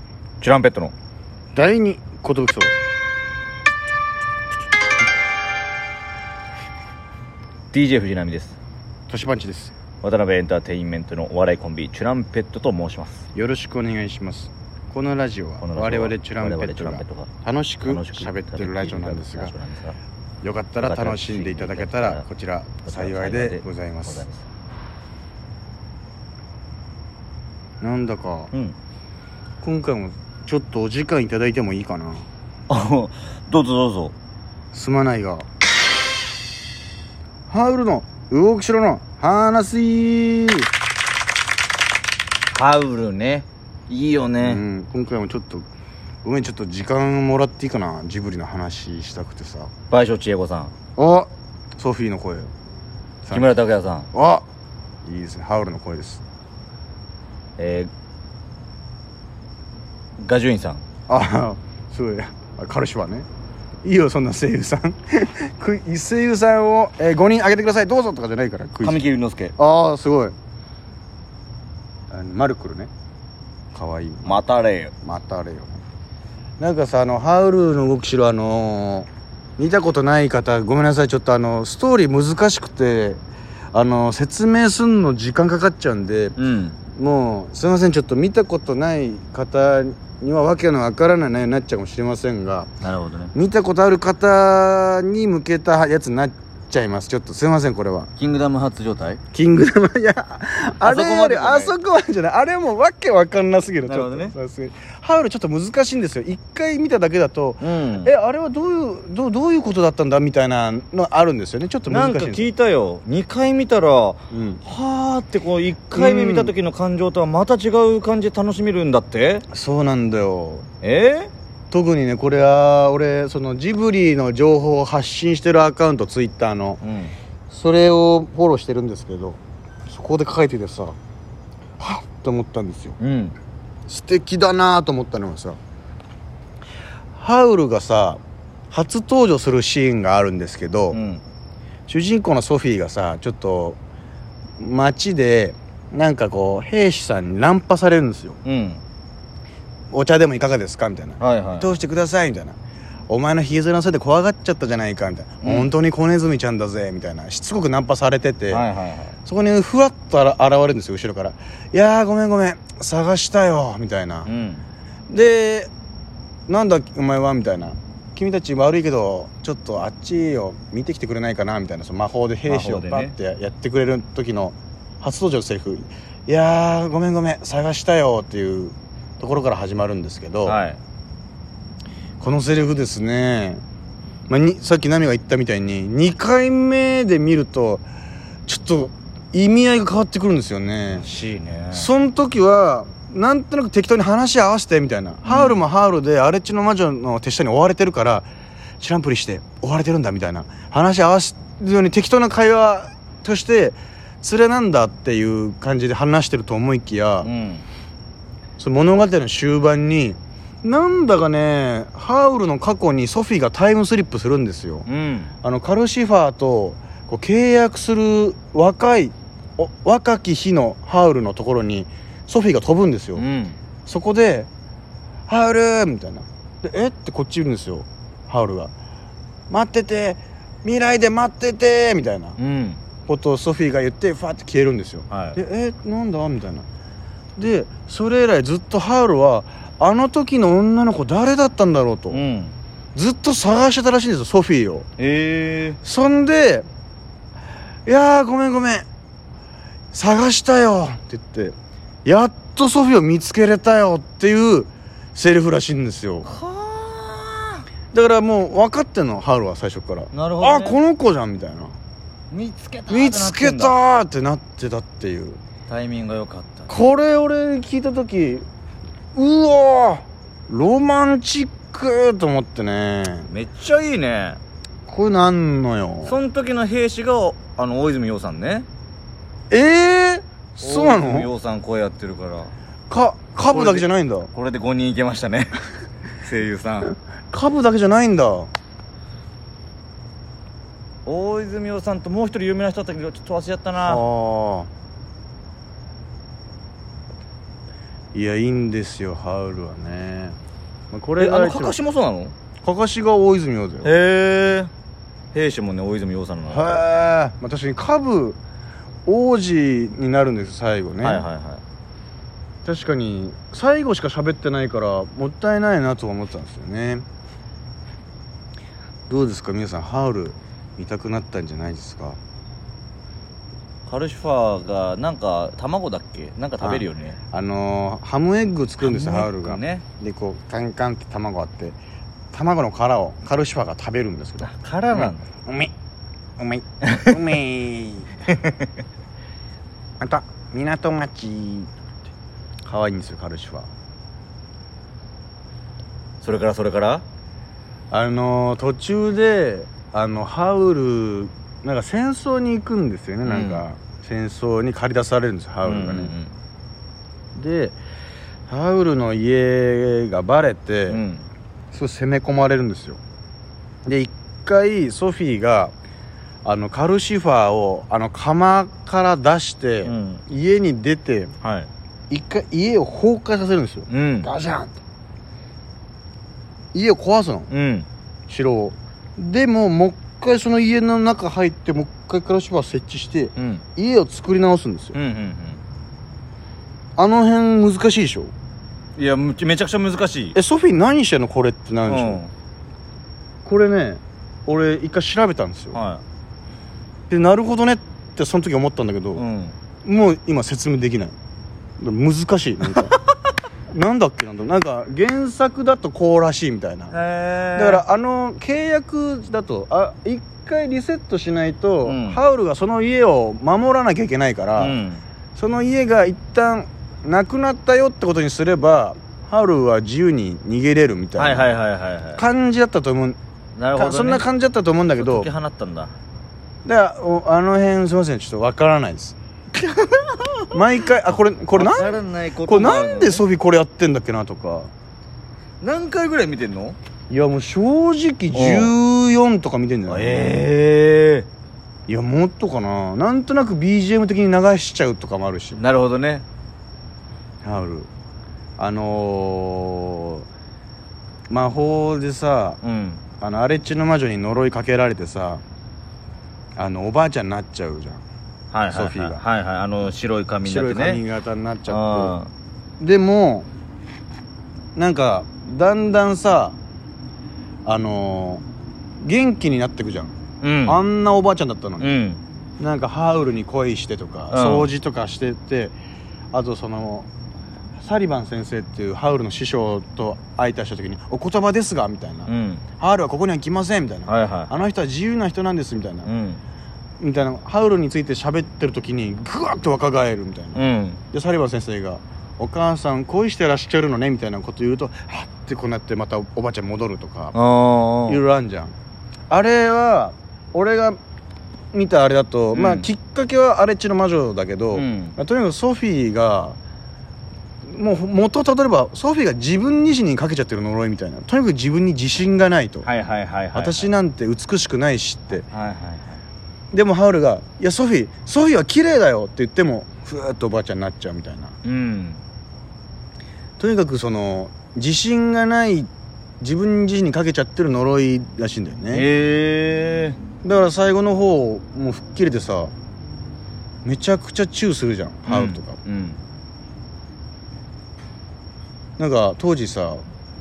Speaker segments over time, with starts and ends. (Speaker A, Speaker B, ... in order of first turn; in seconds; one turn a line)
Speaker A: 0.4-0.9
Speaker B: 1.5-2.7
Speaker A: 7.7-8.6
Speaker B: 9.1-9.7
Speaker A: 10.0-13.3
Speaker B: 13.3-19.5
Speaker A: 15.6-17.3
Speaker A: 17.8-20.0
Speaker B: 20.4-24.2
Speaker A: 20.8-22.2
Speaker A: 22.8-24.4
Speaker B: 27.8-28.5
Speaker B: 29.6-32.3
Speaker A: 32.7-34.1
Speaker B: 34.7-35.5
Speaker B: 37.5-40.7
Speaker A: 42.5-44.6
Speaker B: 44.4-45.7
Speaker B: 46.2-49.7
Speaker A: 49.9-50.7
Speaker B: 51.0-52.5
Speaker B: 53.2-53.6
Speaker A: 53.3-54.1
Speaker B: 54.1-54.5
Speaker B: 55.0-56.2
Speaker A: 57.6-57.9
Speaker A: 60.2-60.8
Speaker B: 61.1-63.3
Speaker B: 63.8-69.0
Speaker A: 68.8-69.5
Speaker B: 69.5-70.3
Speaker B: 72.1-72.9
Speaker B: 73.7-74.4
Speaker A: 74.2-74.9
Speaker B: 75.0-75.8
Speaker B: 76.6-83.2
Speaker B: 83.7-86.3
Speaker A: 86.4-86.8
Speaker B: 86.9-92.7
Speaker A: 92.8-93.3
Speaker B: 93.3-98.1
Speaker A: 98.2-99.2
Speaker B: 99.3-112.5
Speaker A: 100.8-101.7
Speaker A: 103.8-104.3
Speaker A: 107.6-108.1
Speaker A: 111.9-119.4
Speaker B: 114.3-114.6
Speaker B: 115.9-116.5
Speaker B: 119.5-120.7
Speaker A: 120.8-121.3
Speaker B: 121.7-126.8
Speaker A: 126.8-127.1
Speaker B: 127.5-130.9
Speaker B: 131.8-133.0
Speaker A: 133.0-133.3
Speaker B: 133.9-135.6
Speaker B: 137.1-141.0
Speaker A: 140.9-141.2
Speaker B: 141.9-143.8
Speaker B: 144.6-148.4
Speaker A: 148.4-148.8
Speaker B: 149.9-152.6
Speaker A: 151.2-151.8
Speaker B: 153.1-158.7
Speaker A: 155.4-155.7
Speaker A: 158.5-159.1
Speaker B: 159.2-164.3
Speaker A: 164.2-164.7
Speaker B: 165.1-165.7
Speaker B: 166.5-180.6
Speaker A: 172.5-173.1
Speaker A: 180.4-180.8
Speaker B: 182.2-183.6
Speaker B: 184.3-187.8
Speaker B: 188.5-191.1
Speaker A: 190.9-191.9
Speaker B: 191.7-207.3
Speaker A: 195.2-195.6
Speaker A: 207.2-207.6
Speaker B: 208.6-214.9
Speaker A: 214.8-215.3
Speaker B: 215.4-223.2
Speaker A: 223.2-223.6
Speaker B: 223.8-224.5
Speaker B: 225.3-228.7
Speaker B: 229.5-232.4
Speaker A: 232.4-232.8
Speaker B: 233.1-236.7
Speaker A: 235.1-235.4
Speaker B: 237.4-242.2
Speaker A: 242.1-242.5
Speaker B: 242.9-244.8
Speaker A: 245.0-245.8
Speaker B: 245.8-246.7
Speaker B: 247.8-248.8
Speaker B: 249.9-256.3
Speaker A: 256.2-257.6
Speaker B: 257.9-261.8
Speaker A: 260.1-260.8
Speaker A: 262.3-263.8
Speaker B: 262.9-265.4
Speaker A: 265.7-266.7
Speaker B: 266.7-268.4
Speaker B: 269.1-273.3
Speaker A: 273.3-274.4
Speaker B: 274.9-276.2
Speaker A: 276.0-278.7
Speaker B: 279.5-281.3
Speaker A: 280.6-282.5
Speaker B: 282.9-284.3
Speaker A: 283.5-285.6
Speaker A: 286.2-286.9
Speaker B: 287.3-288.5
Speaker A: 291.1-294.0
Speaker B: 293.7-294.7
Speaker B: 298.1-300.4
Speaker B: 300.9-301.8
Speaker A: 301.2-302.3
Speaker B: 302.6-303.9
Speaker A: 303.8-304.7
Speaker A: 305.3-306.8
Speaker B: 306.5-308.4
Speaker B: 309.1-311.2
Speaker A: 311.0-311.6
Speaker B: 312.6-317.1
Speaker B: 319.1-322.2
Speaker A: 323.9-327.2
Speaker B: 326.6-331.8
Speaker A: 328.8-329.8
Speaker B: 332.3-335.7
Speaker A: 334.4-335.2
Speaker B: 336.4-338.3
Speaker A: 336.9-337.1
Speaker B: 340.0-341.7
Speaker B: 342.6-343.7
Speaker A: 346.2-347.0
Speaker B: 347.9-356.1
Speaker A: 353.2-353.6
Speaker A: 355.6-356.3
Speaker B: 357.3-357.8
Speaker B: 358.5-361.0
Speaker A: 360.9-361.2
Speaker B: 361.7-363.0
Speaker B: 363.8-365.7
Speaker B: 366.4-371.3
Speaker A: 369.8-370.2
Speaker A: 371.4-371.7
Speaker B: 372.1-374.8
Speaker A: 373.9-374.3
Speaker B: 376.7-377.5
Speaker A: 377.5-377.9
Speaker B: 378.3-384.9
Speaker A: 383.4-383.6
Speaker A: 384.9-385.6
Speaker B: 387.0-388.3
Speaker A: 389.0-390.4
Speaker B: 390.3-392.2
Speaker A: 391.9-392.3
Speaker B: 393.4-395.8
Speaker A: 395.7-396.0
Speaker B: 397.1-399.2
Speaker A: 399.1-399.6
Speaker B: 399.8-401.1
Speaker B: 401.8-402.9
Speaker B: 403.7-406.9
Speaker A: 406.9-407.8
Speaker B: 407.6-414.8
Speaker A: 411.8-412.2
Speaker A: 414.6-415.0
Speaker B: 415.3-421.6
Speaker A: 421.2-422.2
Speaker B: 422.1-423.2
Speaker A: 423.6-424.2
Speaker B: 423.7-425.3
Speaker A: 424.9-425.9
Speaker B: 426.6-429.1
Speaker A: 429.5-430.4
Speaker B: 430.5-434.7
Speaker A: 431.6-433.2
Speaker A: 435.6-436.8
Speaker B: 437.1-440.4
Speaker A: 438.3-438.7
Speaker A: 439.9-441.3
Speaker B: 441.9-445.6
Speaker A: 445.6-446.2
Speaker B: 447.4-447.9
Speaker B: 448.6-450.2
Speaker B: 451.3-452.6
Speaker A: 452.6-453.0
Speaker B: 453.2-455.4
Speaker B: 456.6-458.0
Speaker A: 458.5-461.0
Speaker B: 458.7-459.2
Speaker B: 460.4-462.1
Speaker A: 461.7-462.3
Speaker B: 462.8-463.5
Speaker B: 464.7-466.6
Speaker B: 467.6-468.4
Speaker B: 469.0-472.0
Speaker A: 470.4-470.8
Speaker A: 471.8-472.2
Speaker B: 472.6-475.7
Speaker A: 474.3-474.7
Speaker B: 476.3-477.1
Speaker B: 477.8-486.1
Speaker A: 482.3-482.6
Speaker A: 484.1-484.5
Speaker A: 486.0-486.4
Speaker B: 487.0-490.6
Speaker A: 490.5-491.0
Speaker B: 491.1-497.3
Speaker A: 497.3-498.2
Speaker B: 498.1-498.7
Speaker B: 499.3-501.0
Speaker B: 501.7-506.6
Speaker A: 502.5-502.9
Speaker A: 504.7-505.2
Speaker B: 507.6-512.9
Speaker A: 512.8-513.9
Speaker B: 513.5-515.5
Speaker A: 515.3-516.2
Speaker B: 516.7-521.6
Speaker A: 521.6-522.2
Speaker B: 523.6-529.0
Speaker A: 528.9-530.2
Speaker B: 530.4-532.7
Speaker B: 533.8-535.8
Speaker A: 535.3-536.2
Speaker B: 539.0-540.0